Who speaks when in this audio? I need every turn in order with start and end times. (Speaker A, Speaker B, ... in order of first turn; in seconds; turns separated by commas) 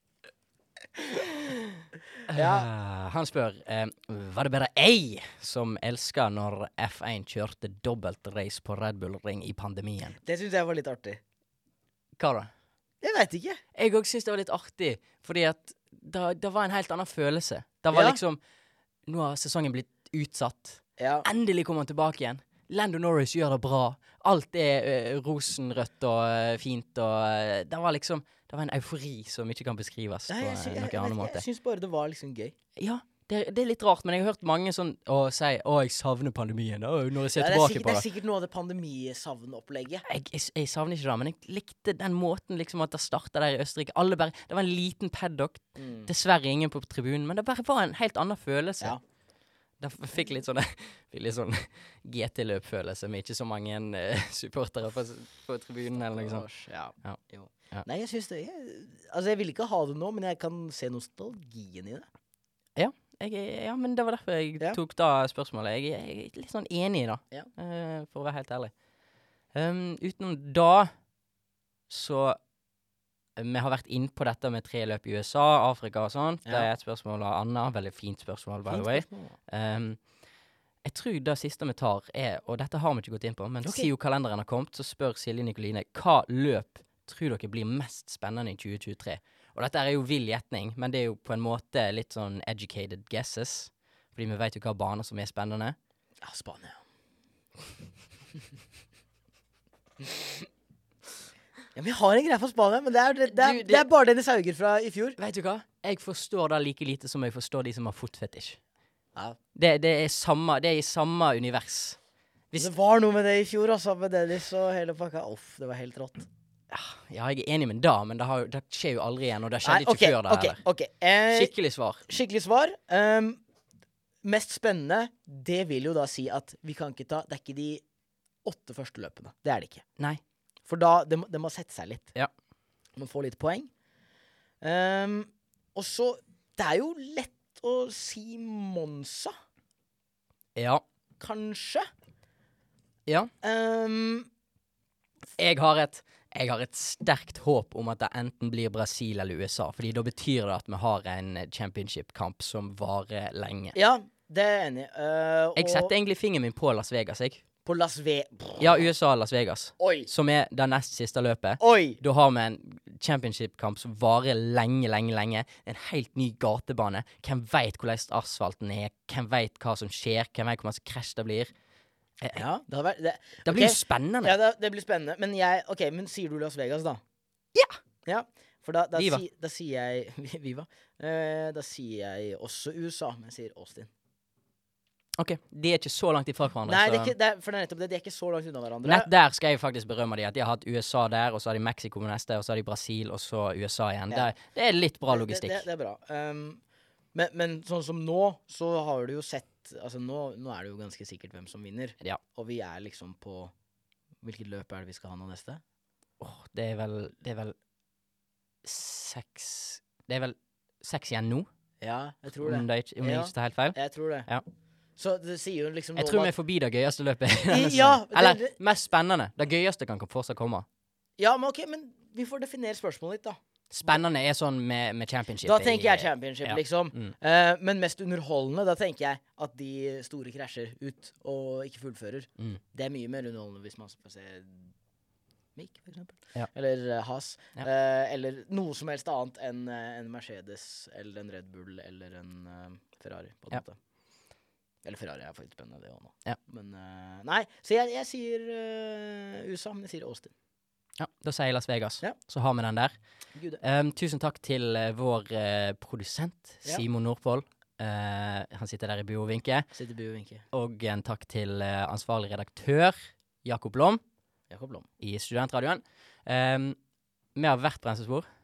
Speaker A: 2.3-10.2, Speaker B: 2.3-2.7, Speaker B: 10.2-11.2, Speaker A: 12.2-12.5, Speaker B: 13.0-13.6, Speaker A: 13.7-18.4, Speaker B: 17.9-18.2, Speaker A: 19.1-31.4, Speaker B: 21.0-21.3, Speaker B: 30.3-32.5, Speaker A: 32.8-38.0, Speaker B: 37.4-40.0, Speaker A: 40.0-49.0, Speaker B: 45.8-46.1, Speaker A: 49.8-56.5, Speaker B: 56.1-62.1, Speaker A: 62.8-68.7, Speaker A: 69.5-70.9, Speaker A: 71.9-72.4, Speaker A: 73.4-80.1, Speaker B: 78.7-79.3, Speaker A: 80.8-95.8, Speaker B: 83.6-83.9, Speaker B: 96.2-96.8, Speaker B: 101.7-105.2, Speaker A: 103.3-103.8, Speaker A: 105.2-108.6, Speaker A: 109.5-112.0, Speaker B: 112.6-116.3, Speaker A: 116.7-120.6, Speaker B: 119.6-121.5, Speaker A: 121.3-122.0, Speaker B: 122.1-123.4, Speaker B: 124.2-127.8, Speaker B: 128.4-129.8, Speaker B: 130.7-132.1, Speaker B: 132.9-133.7, Speaker B: 134.6-139.3, Speaker A: 140.6-140.8, Speaker B: 141.2-141.9, Speaker B: 143.4-144.3, Speaker A: 145.4-153.8, Speaker B: 153.7-155.9, Speaker A: 155.6-157.4, Speaker B: 157.6-158.8, Speaker A: 158.6-171.5, Speaker B: 159.8-160.1, Speaker B: 161.6-162.0, Speaker B: 172.3-177.0, Speaker A: 173.4-174.3, Speaker B: 178.0-183.9, Speaker A: 178.9-179.2, Speaker A: 185.2-187.1, Speaker B: 186.6-189.1, Speaker A: 188.8-195.7, Speaker B: 195.1-196.6, Speaker B: 197.1-203.5, Speaker B: 204.2-205.6, Speaker A: 206.2-207.5, Speaker A: 208.6-211.5, Speaker B: 211.8-214.3, Speaker A: 212.4-214.4, Speaker B: 215.0-216.3, Speaker A: 215.9-220.7, Speaker B: 217.5-218.5, Speaker B: 221.2-224.0, Speaker A: 223.7-227.1, Speaker B: 225.4-234.7, Speaker B: 235.6-243.8, Speaker B: 244.8-250.3, Speaker A: 251.0-253.0, Speaker B: 253.3-253.6, Speaker A: 253.6-259.7, Speaker B: 259.7-260.4, Speaker A: 260.5-264.0, Speaker B: 264.5-264.9, Speaker A: 265.0-266.8, Speaker A: 267.3-268.3